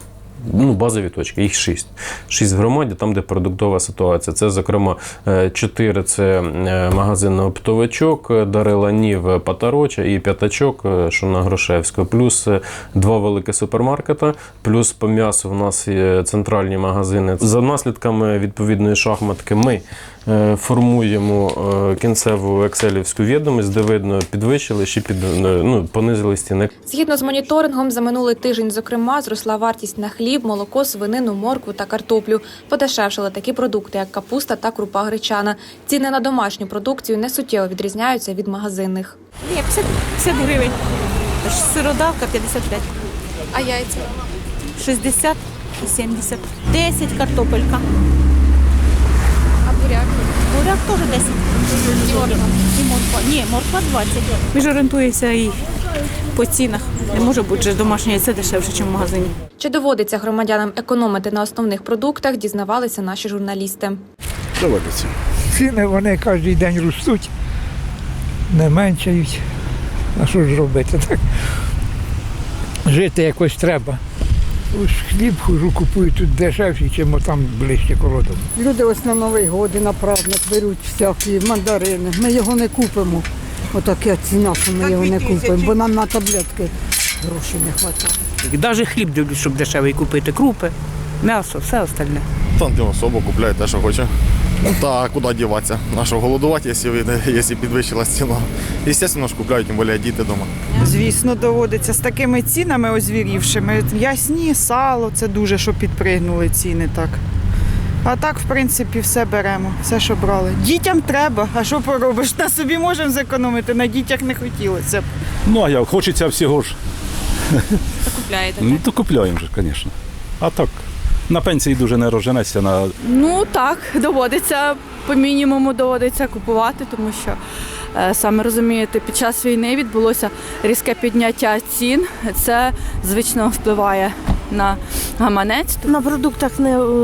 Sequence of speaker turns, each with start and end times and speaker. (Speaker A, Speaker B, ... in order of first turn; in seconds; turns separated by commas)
Speaker A: 0.4-26.7, Speaker B: 26.9-39.2, Speaker C: 39.5-40.8, Speaker C: 41.4-42.9, Speaker C: 44.8-47.8, Speaker C: 50.5-51.4, Speaker C: 52.1-55.6, Speaker C: 56.4-59.3, Speaker B: 59.6-64.0, Speaker D: 64.6-65.0, Speaker E: 65.5-67.3, Speaker E: 68.5-69.4, Speaker E: 70.2-71.2, Speaker E: 72.9-74.0, Speaker E: 74.7-78.5, Speaker F: 78.6-88.2, Speaker C: 84.9-85.7, Speaker G: 88.5-90.7, Speaker C: 88.5-89.5, Speaker C: 90.1-90.7, Speaker C: 91.2-92.2, Speaker H: 92.6-94.1, Speaker H: 94.7-100.5, Speaker I: 100.8-107.2, Speaker I: 108.0-115.1, Speaker D: 115.5-116.8, Speaker C: 118.2-118.8, Speaker D: 118.5-122.9, Speaker J: 123.0-127.4, Speaker J: 128.0-135.8